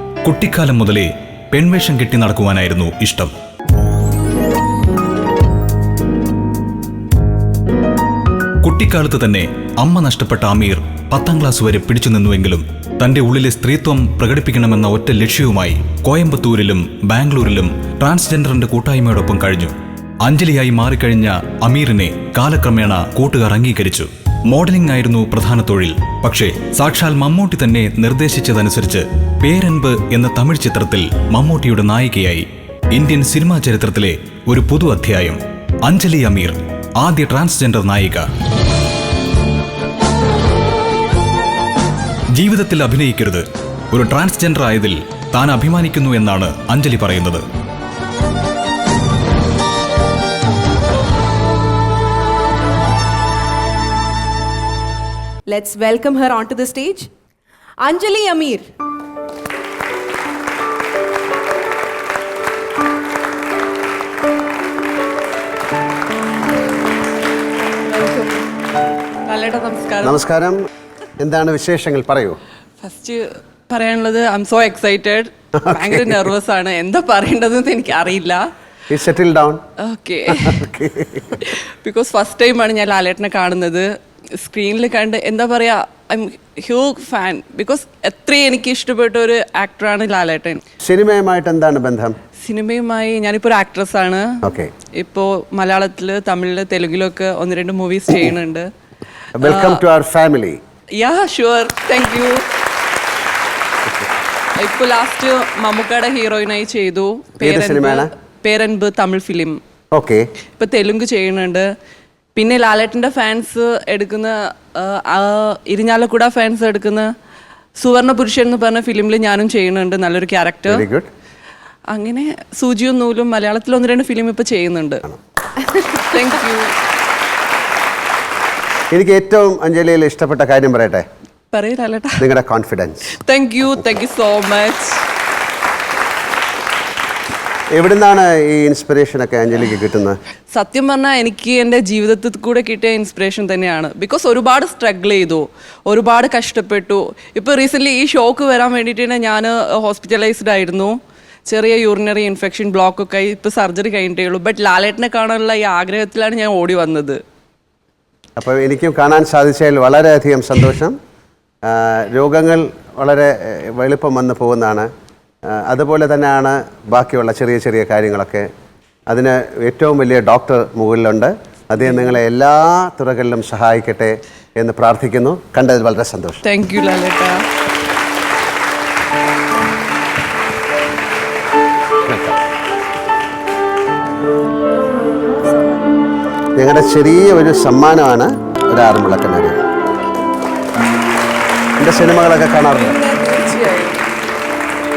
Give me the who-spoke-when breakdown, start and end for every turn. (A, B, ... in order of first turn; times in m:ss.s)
0:00.2-0:03.3 A
0:08.6-0:38.3 A
0:42.3-0:47.4 A
0:55.5-0:57.1 B
0:57.8-0:58.7 B
1:07.9-1:08.4 C
1:09.2-1:10.2 C
1:10.0-1:10.6 D
1:11.2-1:12.4 D
1:12.8-1:18.4 C
1:15.6-1:16.2 D
1:18.9-1:19.6 D
1:19.8-1:20.6 C
1:20.3-1:21.4 D
1:21.4-1:30.6 C
1:30.8-1:32.2 D
1:32.4-1:34.4 C
1:34.4-1:34.7 D
1:34.9-1:38.7 C
1:39.4-1:40.6 D
1:39.4-1:39.8 C
1:41.0-1:42.5 C
1:44.6-1:49.6 C
1:47.4-1:48.1 D
1:49.9-1:50.3 D
1:50.6-1:51.7 C
1:52.4-1:57.1 C
1:57.8-2:00.9 C
2:00.7-2:01.1 D
2:01.9-2:05.0 C
2:05.6-2:06.7 C
2:08.9-2:11.1 D
2:11.5-2:12.2 C
2:12.2-2:13.1 D
2:13.2-2:15.0 C
2:17.7-2:20.2 D
2:20.5-2:31.0 C
2:31.5-2:37.2 C
2:38.4-2:41.0 D
2:41.7-2:44.9 D
2:45.5-2:48.5 D
2:49.1-2:56.4 D
2:56.4-2:57.4 C
3:06.6-3:09.6 D
3:11.8-3:13.0 D
3:12.7-3:14.0 C